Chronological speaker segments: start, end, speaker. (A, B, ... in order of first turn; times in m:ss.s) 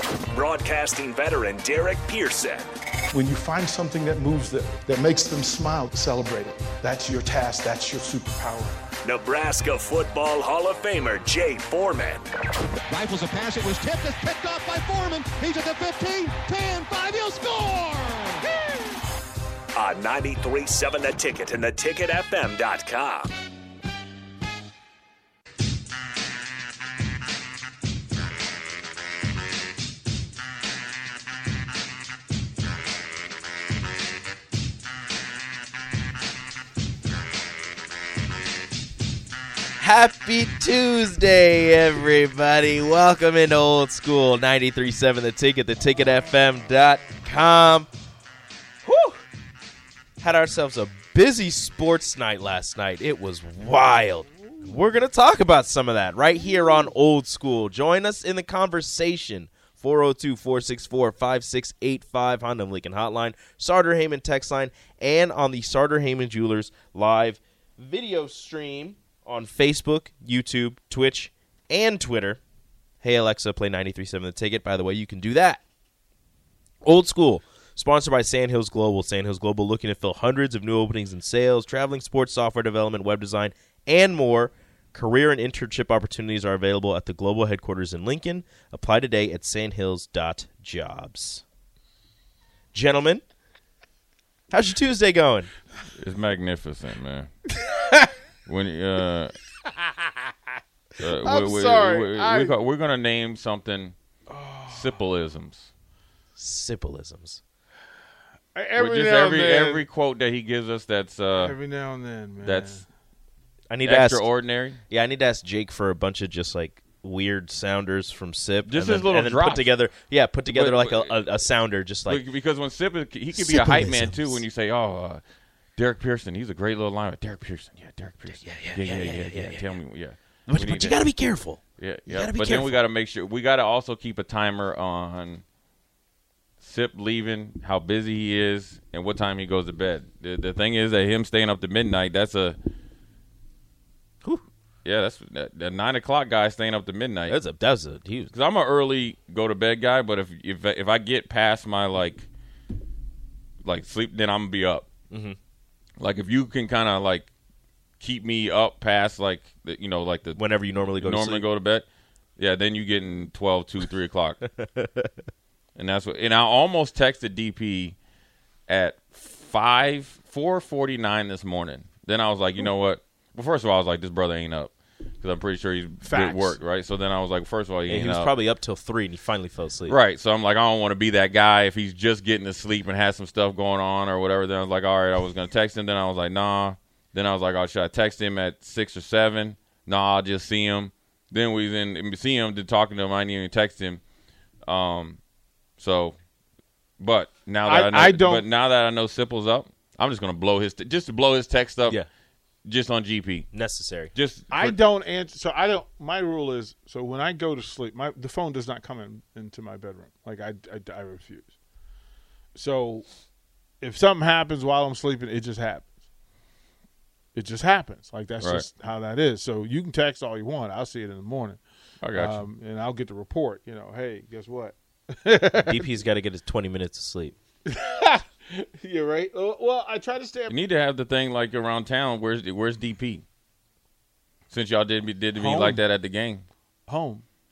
0:00.3-0:02.7 A
0:03.1-0:08.7 B
0:04.8-0:05.9 C
0:08.0-0:08.4 C
0:09.0-0:12.3 A
0:12.9-0:18.5 D
0:19.7-0:23.3 A
0:39.8-0:47.9 E
0:48.8-0:49.2 E
0:50.2-1:12.4 E
1:13.0-1:15.6 E
1:16.8-1:31.4 E
1:32.7-1:33.2 E
1:34.5-1:35.5 E
1:36.0-1:37.3 F
1:38.5-1:39.3 F
1:41.0-1:43.9 F
1:41.2-1:42.5 C
1:44.3-1:44.8 C
1:44.7-1:45.7 F
1:46.4-1:47.4 E
1:48.5-1:49.8 C
1:48.8-1:51.6 F
1:51.4-1:52.8 C
1:52.4-1:52.8 F
1:53.7-1:54.3 E
1:53.8-1:54.8 F
1:54.9-2:02.2 E
1:58.6-1:59.7 F
2:00.5-2:01.2 F
2:02.1-2:05.2 F
2:03.3-2:04.4 E
2:05.8-2:11.2 F
2:08.4-2:09.7 E
2:10.5-2:12.8 E
2:11.8-2:15.4 F
2:16.6-2:22.6 F
2:24.8-2:27.4 F
2:27.3-2:28.3 E
2:28.3-2:32.3 F
2:33.6-2:34.9 F
2:35.1-2:35.4 E
2:36.0-2:37.3 F
2:38.0-2:40.4 F
2:40.4-2:41.4 E
2:41.0-2:41.8 F
2:42.4-2:44.4 F
2:44.4-2:45.1 E
2:45.8-2:48.0 F
2:48.7-2:58.3 F
2:56.0-2:56.6 C
2:57.9-3:00.0 E
2:59.9-3:14.0 F
3:14.6-3:15.2 F
3:15.8-3:16.2 F
3:17.0-3:22.0 F
3:17.6-3:18.4 C
3:22.6-3:23.5 F
3:23.5-3:24.1 E
3:24.1-3:24.8 F
3:24.5-3:31.5 C
3:32.5-3:33.1 C
3:33.8-3:35.9 C
3:37.3-3:41.6 C
3:38.4-3:38.6 F
3:42.0-3:42.4 F
3:42.1-3:45.8 C
3:45.5-3:47.3 E
3:47.6-3:50.5 C
3:50.5-3:53.2 F
3:54.5-3:56.4 F
3:55.4-3:55.8 C
3:56.9-3:57.2 C